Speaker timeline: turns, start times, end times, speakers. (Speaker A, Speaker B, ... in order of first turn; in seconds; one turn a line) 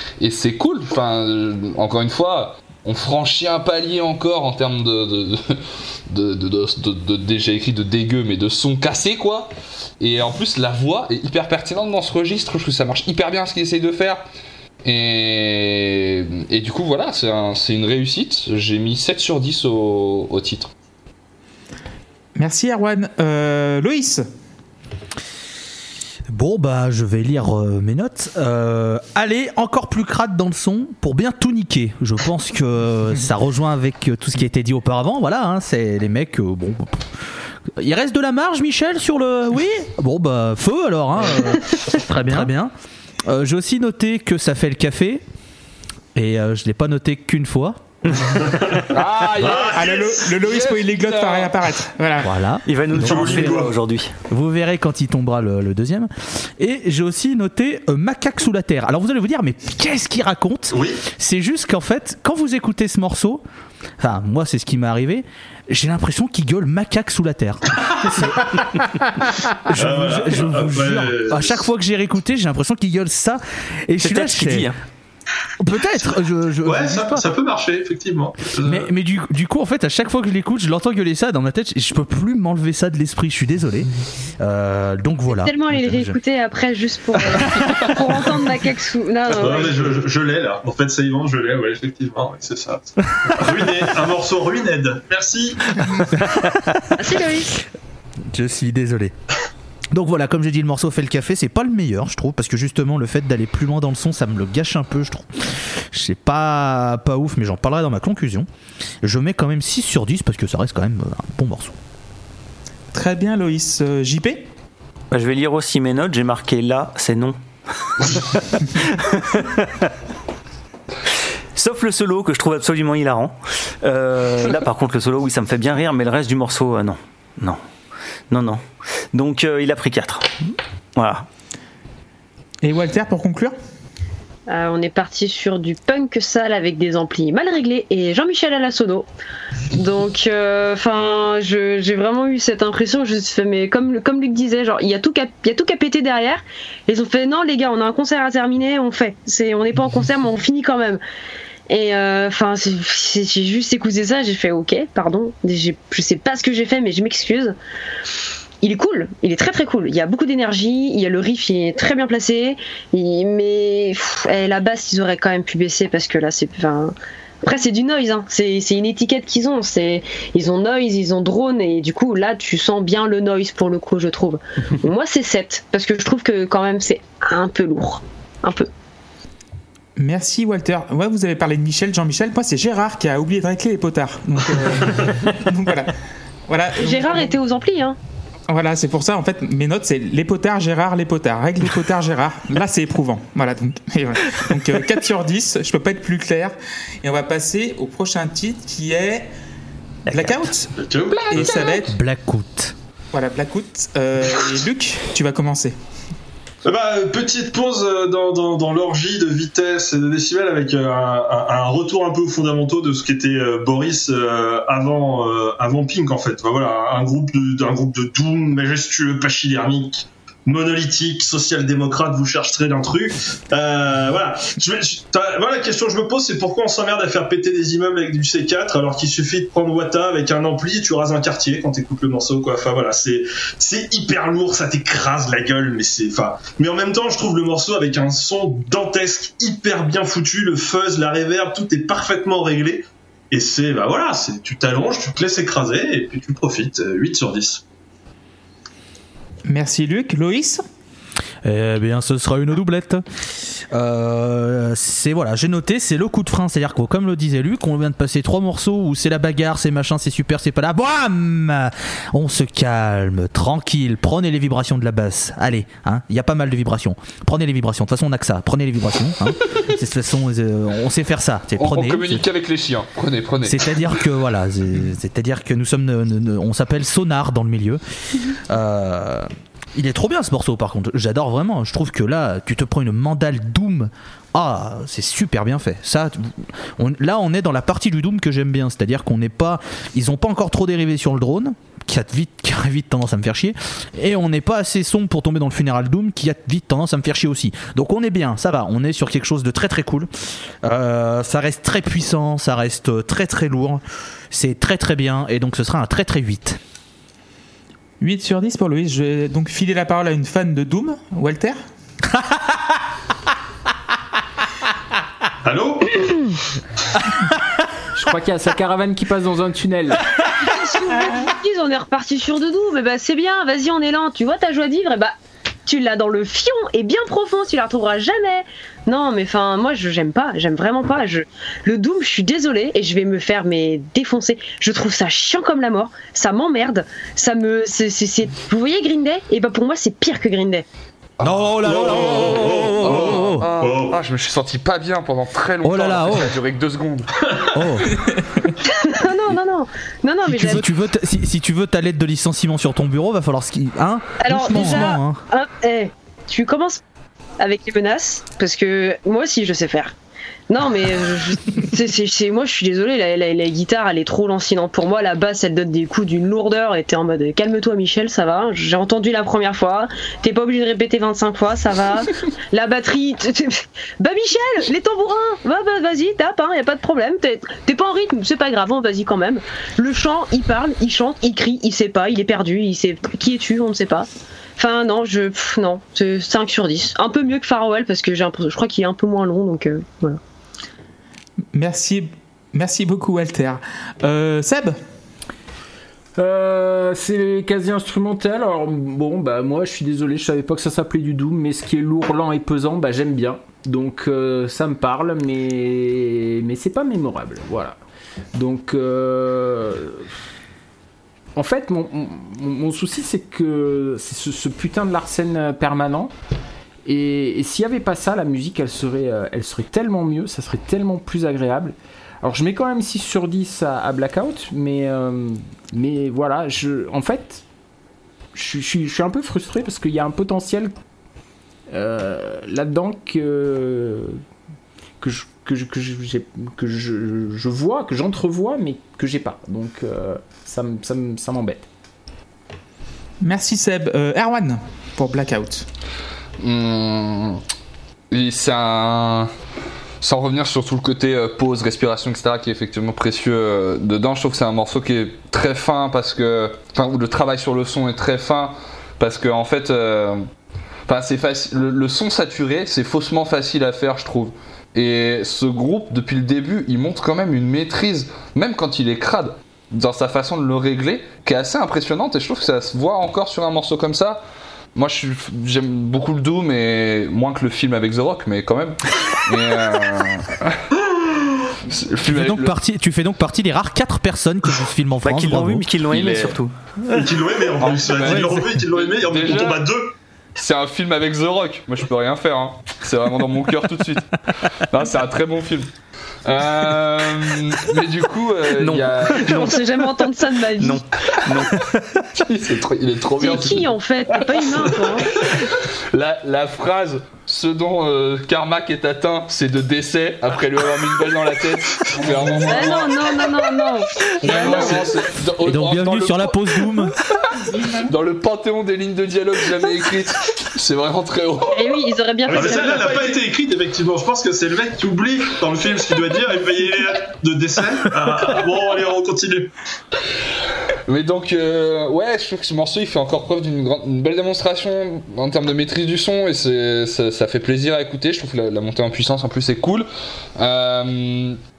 Speaker A: 0.2-14.2
Speaker A: 14.8-20.7
Speaker B: 22.4-24.3
Speaker C: 26.3-42.7
Speaker C: 43.2-45.2
Speaker C: 46.1-48.2
Speaker D: 48.4-48.8
Speaker A: 48.9-51.5
Speaker D: 49.4-50.2
Speaker B: 49.6-52.4
Speaker C: 52.2-53.6
Speaker E: 52.7-54.1
Speaker D: 53.0-53.8
Speaker C: 54.3-63.4
Speaker D: 60.7-61.0
Speaker C: 64.0-68.6
Speaker C: 69.7-74.7
Speaker D: 69.8-71.6
Speaker E: 74.0-74.8
Speaker C: 75.6-77.3
Speaker D: 76.6-78.9
Speaker C: 78.6-86.2
Speaker F: 85.3-89.9
Speaker D: 89.3-96.0
Speaker F: 97.0-97.6
Speaker C: 98.2-99.1
Speaker C: 99.9-108.5
Speaker C: 109.0-111.8
Speaker B: 112.9-114.5
Speaker E: 115.1-117.4
Speaker E: 117.9-119.9
Speaker E: 121.5-127.6
Speaker E: 128.3-128.6
Speaker E: 129.1-130.3
Speaker E: 131.0-131.2
Speaker B: 132.6-133.6
Speaker F: 134.5-139.1
Speaker F: 139.7-151.0
Speaker F: 151.7-157.6
Speaker F: 158.6-178.7
Speaker B: 180.0-185.9
Speaker B: 186.5-187.4
Speaker F: 186.8-188.0
Speaker B: 188.5-199.3
Speaker B: 200.1-200.7
Speaker C: 200.1-200.4
Speaker D: 200.8-201.9
Speaker B: 201.3-201.9
Speaker C: 201.5-202.8
Speaker B: 203.1-205.8
Speaker D: 206.7-247.6
Speaker B: 249.5-250.6
Speaker C: 251.4-272.2
Speaker A: 271.6-273.8
Speaker C: 273.4-300.1
Speaker C: 300.6-306.6
Speaker B: 308.0-311.6
Speaker D: 315.4-316.3
Speaker G: 317.9-320.1
Speaker F: 320.4-325.1
Speaker F: 325.7-340.6
Speaker C: 341.2-343.5
Speaker A: 341.2-347.2
Speaker D: 341.6-344.0
Speaker C: 345.6-346.3
Speaker C: 347.5-348.0
Speaker F: 348.6-350.7
Speaker C: 350.3-355.2
Speaker F: 354.2-356.8
Speaker F: 357.4-359.9
Speaker F: 360.5-390.2
Speaker B: 391.5-394.8
Speaker G: 396.2-407.8
Speaker G: 408.4-410.1
Speaker G: 411.4-416.1
Speaker G: 416.9-427.4
Speaker G: 428.3-430.7
Speaker G: 431.7-434.2
Speaker G: 435.0-441.7
Speaker B: 443.2-445.7
Speaker A: 446.4-447.4
Speaker A: 448.1-449.3
Speaker A: 450.0-460.2
Speaker A: 460.9-474.2
Speaker A: 474.8-480.6
Speaker A: 481.6-482.6
Speaker C: 482.0-486.3
Speaker E: 485.0-486.5
Speaker D: 486.9-489.9
Speaker A: 487.6-489.7
Speaker C: 488.1-488.5
Speaker A: 490.4-495.7
Speaker A: 496.2-499.5
Speaker E: 498.5-499.6
Speaker F: 499.1-500.8
Speaker E: 500.6-501.6
Speaker A: 502.2-522.0
Speaker F: 503.2-505.1
Speaker F: 512.4-514.9
Speaker D: 514.3-514.9
Speaker C: 515.4-517.0
Speaker F: 521.5-523.2
Speaker D: 522.3-529.5
Speaker A: 530.9-541.4